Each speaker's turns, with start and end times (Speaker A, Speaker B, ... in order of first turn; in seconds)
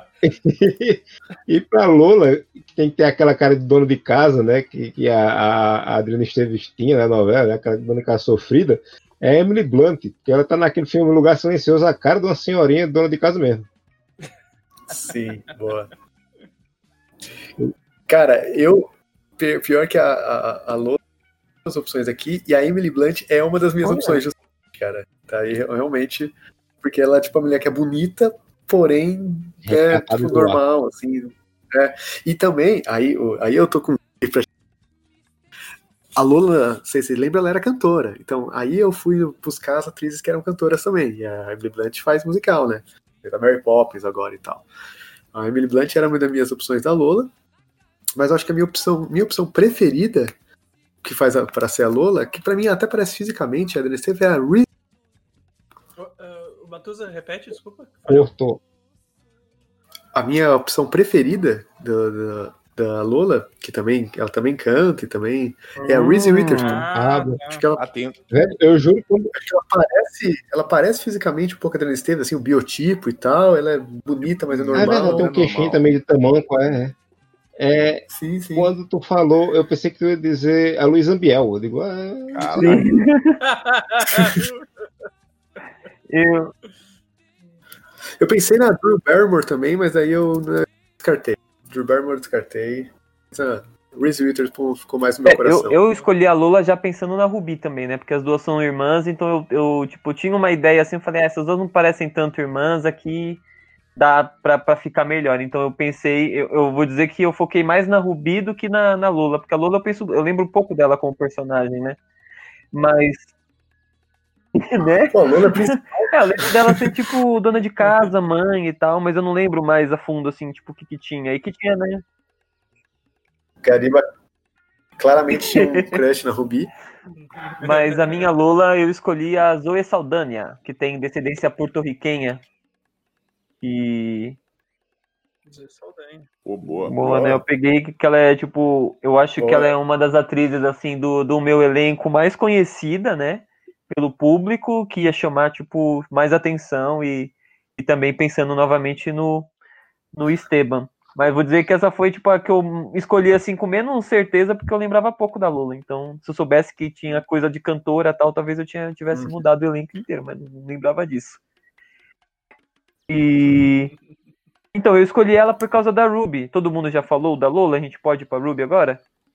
Speaker A: 0.2-13.7, 29.7-30.6, 58.1-58.6, 66.9-67.4, 68.3-69.3, 74.7-76.9, 77.6-78.0, 78.5-82.8
Speaker B: 14.9-15.9, 17.6-21.0, 21.6-34.5, 36.1-44.7, 45.3-47.3, 48.1-50.3, 51.0-54.7, 60.1-66.9, 67.5-67.8, 69.3-75.3, 78.1-78.7, 88.2-95.8, 115.1-116.8, 123.6-124.0, 125.0-126.7, 137.0-137.4, 139.4-139.7, 159.1-159.4
Speaker C: 23.8-24.2, 65.8-66.8, 82.6-83.4, 86.1-86.5, 95.2-103.4, 104.0-112.0, 112.7-113.2, 114.5-115.1, 116.1-122.0, 127.6-132.4, 133.6-134.4, 136.8-149.5, 150.1-161.4, 163.1-163.9, 164.7-169.0
Speaker D: 56.0-58.3, 66.6-67.6, 83.4-84.7, 127.1-128.3, 135.4-136.3
Speaker E: 67.7-68.2, 74.2-75.8, 82.3-82.8, 136.4-137.0